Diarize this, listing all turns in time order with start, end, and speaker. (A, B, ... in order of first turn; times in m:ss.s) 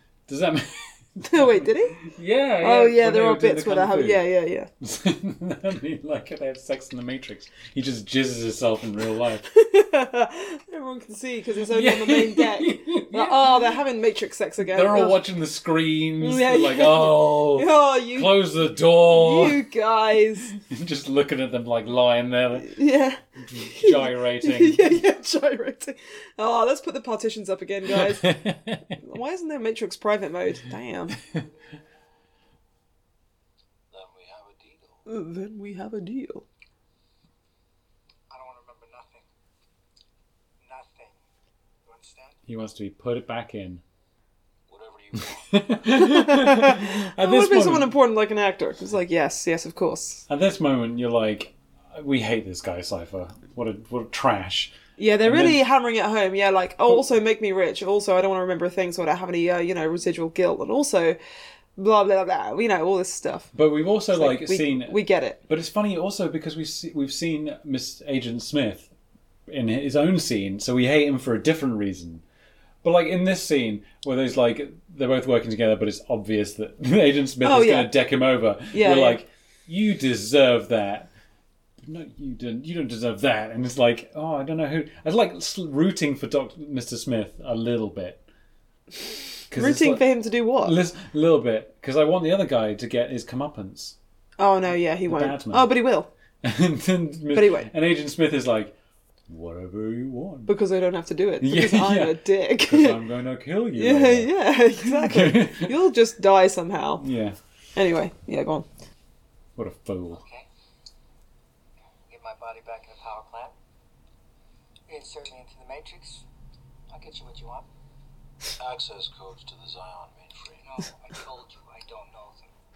0:00.3-0:04.3 A
0:01.2-0:02.0 B
0:02.6-0:04.7 B
0:04.8-0:09.5 A
0:09.5-0:15.2 B
0:11.6-0:13.8 A
0:14.6-0:19.6 A
0:16.2-0:18.4 B
0:19.0-0:20.5 B
0:20.5-0:22.8 A
0:22.6-0:28.4 B
0:23.4-0:25.0 A
0:27.9-0:29.0 A
0:29.0-0:31.2 B
0:33.9-0:35.1 C
0:35.1-0:36.4 B
0:38.3-0:39.3 D
0:40.6-0:41.2 D
0:41.8-0:42.4 D
0:42.5-0:43.8 A
0:44.7-0:45.7 C
0:45.3-0:47.9 A
0:45.9-0:50.2 B
0:50.3-0:55.6 A
0:55.0-1:01.2 B
1:01.8-1:03.5 B
1:03.5-1:08.9 A
1:04.1-1:05.4 B
1:09.5-1:12.2 A
1:12.8-1:21.1 A
1:17.4-1:17.9 B
1:18.7-1:19.2 B
1:21.8-1:28.2 A
1:29.5-1:30.0 A
1:29.5-1:30.8 B
1:30.6-1:34.0 A
1:34.4-1:36.1 B
1:35.0-1:35.7 A
1:36.4-1:38.8 A
1:37.3-1:37.7 B
1:39.3-1:40.5 A
1:40.5-1:43.0 B
1:41.4-1:45.8 A
1:43.8-1:47.0 B
1:47.0-1:47.4 A
1:47.8-1:48.7 B
1:49.6-1:50.2 A
1:50.1-1:50.5 D
1:52.1-1:53.6 D
1:54.9-1:56.2 D
1:56.9-1:57.7 D
1:58.6-2:00.6 C
2:00.6-2:02.5 D